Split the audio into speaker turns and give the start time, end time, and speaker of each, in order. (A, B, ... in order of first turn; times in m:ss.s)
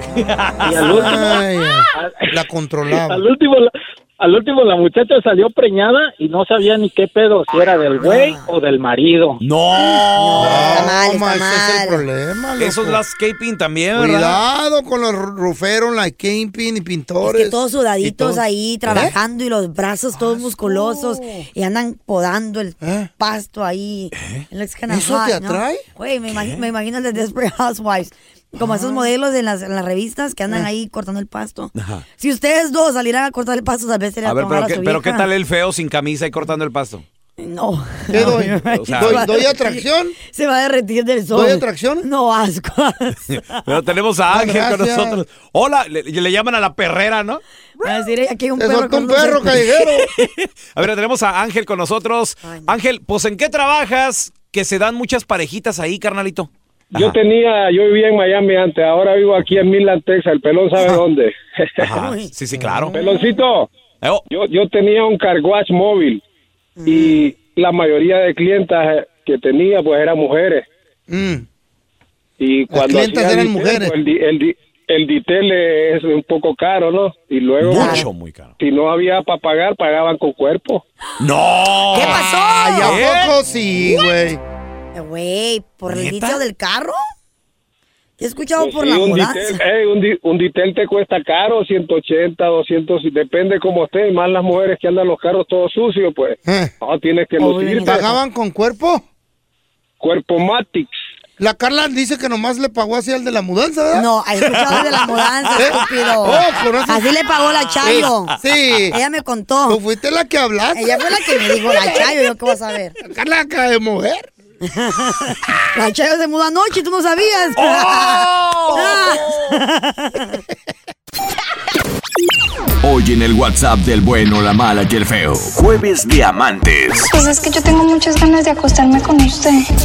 0:00.3-0:01.2 A
0:00.6-0:01.4 B
0:00.9-0:03.2 C
0:01.9-0:02.3 B
0:02.9-0:09.4 B
0:08.0-0:08.5 D
0:09.4-0:10.9 A
0:10.1-0:12.0 D
0:10.4-0:13.0 C
0:12.6-0:14.4 A
0:13.9-0:19.1 C
0:17.2-0:35.3 D
0:20.2-0:21.0 C
0:22.8-0:23.1 C
0:24.2-0:24.4 A
0:24.9-0:25.9 C
0:26.3-0:26.6 A
0:28.6-0:29.0 C
0:31.7-0:32.0 A
0:34.2-0:37.0 A
0:37.4-0:43.6 D
0:38.1-0:39.3 A
0:38.1-0:40.2 C
0:41.3-0:42.0 C
0:43.3-0:47.4 A
0:44.3-0:45.2 C
0:47.8-0:49.7 D
0:48.6-0:50.1 C
0:50.1-0:57.2 A
0:52.4-0:52.7 D
0:56.9-1:01.9 E
1:01.8-1:03.0 A
1:01.9-1:02.3 D
1:02.6-1:03.1 C
1:02.9-1:03.7 E
1:04.3-1:06.2 E
1:06.8-1:07.3 D
1:06.9-1:10.7 E
1:11.1-1:11.4 C
1:12.4-1:18.0 E
1:12.7-1:13.9 C
1:17.6-1:18.5 A
1:17.6-1:18.0 D
1:18.6-1:20.8 E
1:21.2-1:23.4 A
1:21.9-1:23.0 D
1:22.0-1:24.4 C
1:24.9-1:27.0 D
1:25.9-1:26.4 A
1:28.2-1:29.6 D
1:28.6-1:38.0 E
1:36.4-1:36.7 C
1:37.4-1:38.2 D
1:37.9-1:39.0 C
1:40.0-1:40.9 E
1:41.4-1:44.0 C
1:43.9-1:48.4 D
1:45.6-1:47.0 C
1:47.8-1:48.1 A
1:47.8-1:48.9 C
1:48.9-1:49.8 D
1:49.7-1:51.0 C
1:50.7-1:52.9 D
1:53.0-1:54.3 C
1:54.7-2:00.4 D
1:57.6-1:59.4 A
2:02.8-2:07.1 F
2:07.1-2:09.6 G